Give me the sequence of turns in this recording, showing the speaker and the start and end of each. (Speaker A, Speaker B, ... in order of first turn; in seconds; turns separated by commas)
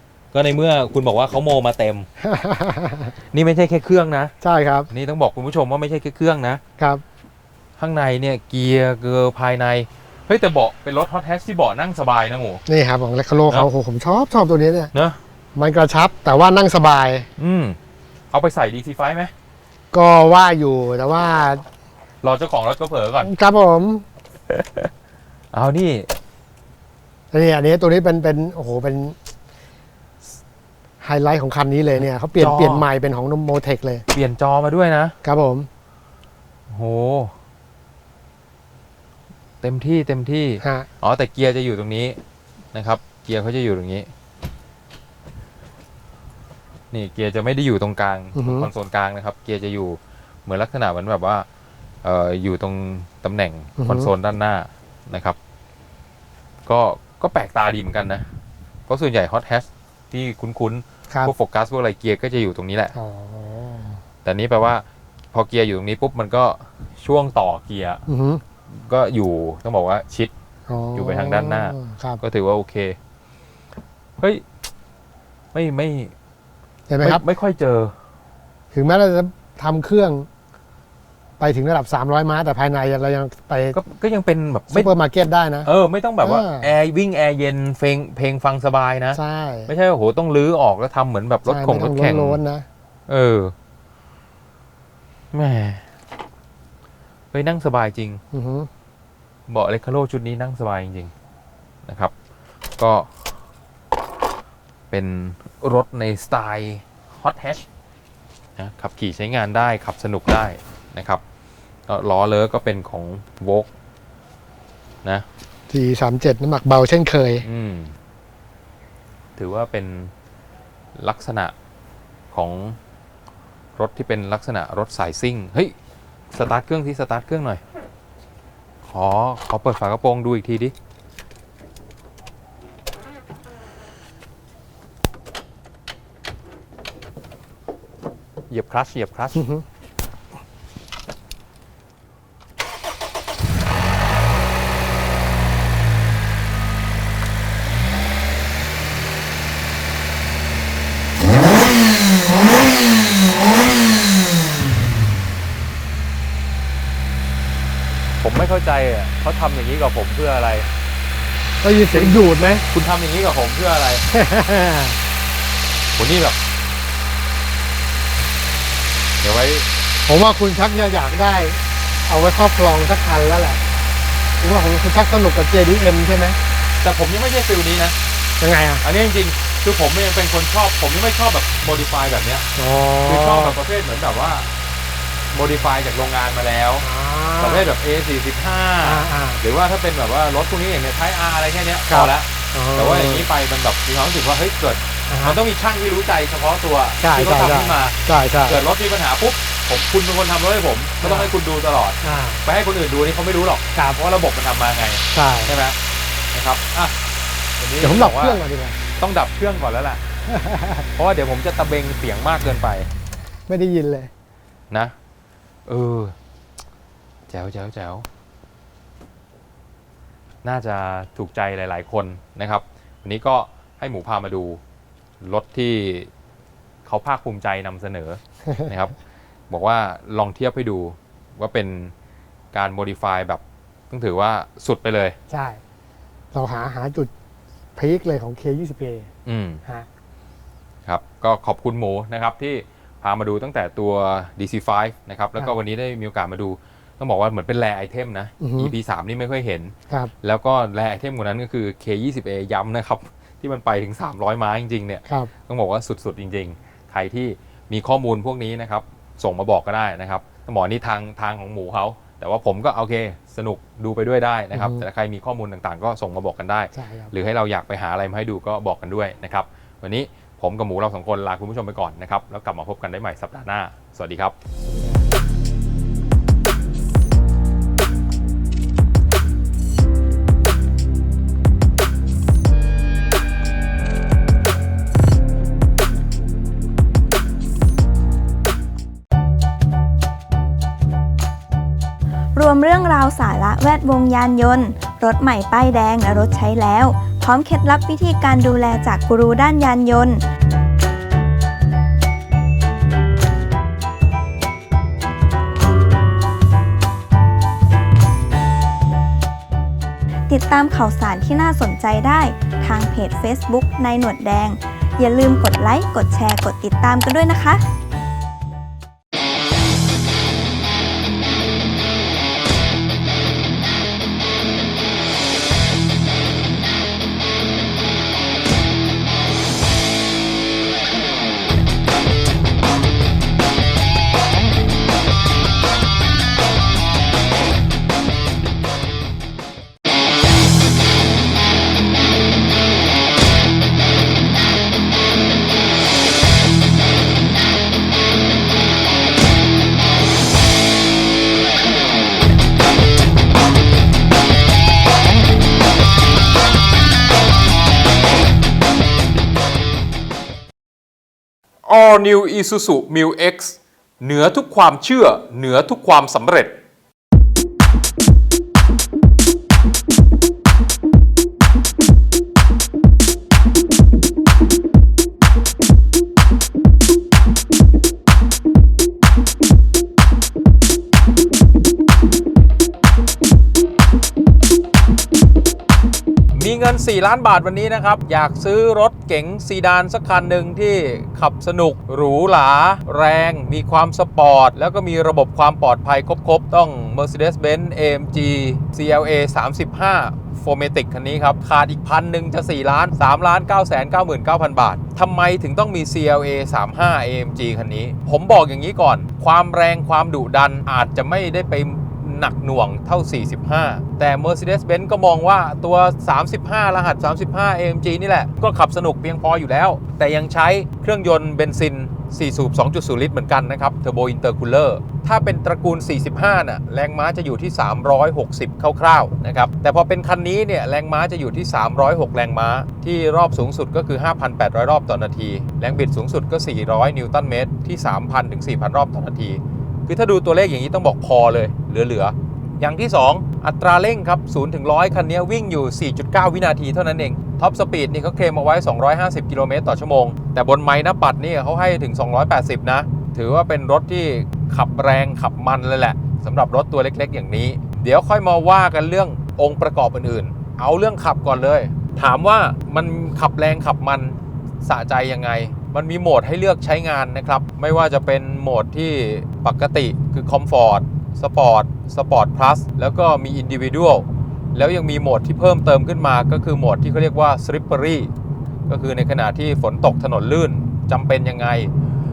Speaker A: 0.3-2.1, Speaker B: 2.2-3.1, Speaker A: 3.3-4.3, Speaker B: 4.4-4.9, Speaker A: 4.9-6.6, Speaker B: 6.8-7.0, Speaker A: 7.8-12.6, Speaker B: 12.7-14.9, Speaker A: 14.9-15.2, Speaker B: 15.6-17.3, Speaker A: 17.4-17.8, Speaker A: 18.3-19.3, Speaker B: 19.9-21.6, Speaker A: 22.2-23.3, Speaker B: 23.2-24.1, Speaker A: 24.5-24.9, Speaker A: 25.5-26.1, Speaker B: 27.3-29.2, Speaker B: 31.0-34.0, Speaker A: 32.4-32.9, Speaker A: 34.1-35.1, Speaker B: 35.2-35.7, Speaker A: 36.7-37.3, Speaker A: 39.6-42.2, Speaker B: 40.6-40.9, Speaker A: 42.7-44.1, Speaker A: 46.9-51.5, Speaker B: 48.3-48.7, Speaker A: 52.0-55.4, Speaker B: 53.8-54.1, Speaker A: 56.6-58.2, Speaker A: 58.9-62.9, Speaker B: 62.9-64.0, Speaker A: 64.2-68.0, Speaker B: 68.1-68.4, Speaker A: 68.7-70.3, Speaker B: 70.7-72.2, Speaker A: 71.0-73.0, Speaker A: 74.2-74.4, Speaker A: 75.5-76.1, Speaker B: 76.9-77.2, Speaker A: 77.0-77.9, Speaker B: 78.7-80.3, Speaker B: 81.4-83.8, Speaker A: 83.7-84.9, Speaker B: 84.7-85.7, Speaker A: 85.6-92.4, Speaker B: 86.2-86.7, Speaker B: 89.1-89.7, Speaker B: 91.5-92.7, Speaker A: 93.1-93.5, Speaker A: 95.3-95.8, Speaker A: 97.3-98.2, Speaker B: 98.3-98.7, Speaker A: 99.5-101.1, Speaker A: 101.8-102.1, Speaker A: 102.8-103.1, Speaker A: 104.9-107.7, Speaker A: 108.6-111.2, Speaker A: 111.9-113.7, Speaker B: 115.7-117.5, Speaker A: 117.4-117.9, Speaker A: 119.4-120.1, Speaker A: 121.0-121.5, Speaker A: 122.3-122.8, Speaker A: 123.8-125.7, Speaker A: 126.3-127.6, Speaker A: 128.9-130.7, Speaker A: 138.5-139.5, Speaker B: 139.3-139.6, Speaker A: 158.2-160.7, Speaker B: 161.6-162.6, Speaker A: 161.9-162.2, Speaker A: 162.7-164.0, Speaker B: 164.1-165.0, Speaker A: 165.9-166.4, Speaker A: 169.2-169.7, Speaker B: 170.1-173.6, Speaker B: 174.4-176.4, Speaker A: 176.8-177.9, Speaker B: 178.4-178.8, Speaker A: 178.8-182.4, Speaker B: 182.6-183.6, Speaker A: 183.1-184.5, Speaker A: 185.3-186.8, Speaker B: 186.8-187.7, Speaker A: 187.4-205.8, Speaker B: 188.8-189.4, Speaker B: 191.9-193.3, Speaker B: 195.1-195.4, Speaker B: 197.0-198.6, Speaker B: 201.0-201.3, Speaker B: 202.0-202.4, Speaker B: 205.1-205.6, Speaker A: 206.3-206.9, Speaker A: 207.6-208.4, Speaker B: 207.8-208.8, Speaker A: 209.0-210.0, Speaker B: 210.3-210.9, Speaker A: 210.9-212.9, Speaker B: 213.5-214.1, Speaker A: 215.7-216.1, Speaker A: 217.3-218.1, Speaker A: 220.4-224.6, Speaker A: 225.2-226.1, Speaker A: 226.8-228.9, Speaker A: 229.5-231.9, Speaker A: 232.5-235.2, Speaker B: 235.3-235.6, Speaker B: 236.3-237.1, Speaker B: 237.8-239.1, Speaker A: 239.2-239.6, Speaker A: 240.8-274.3, Speaker B: 248.4-248.7, Speaker B: 264.5-264.8, Speaker B: 266.7-267.1, Speaker C: 292.3-300.2, Speaker C: 310.3-317.6, Speaker A: 361.6-366.6, Speaker A: 386.3-478.1, Speaker A: 478.6-481.7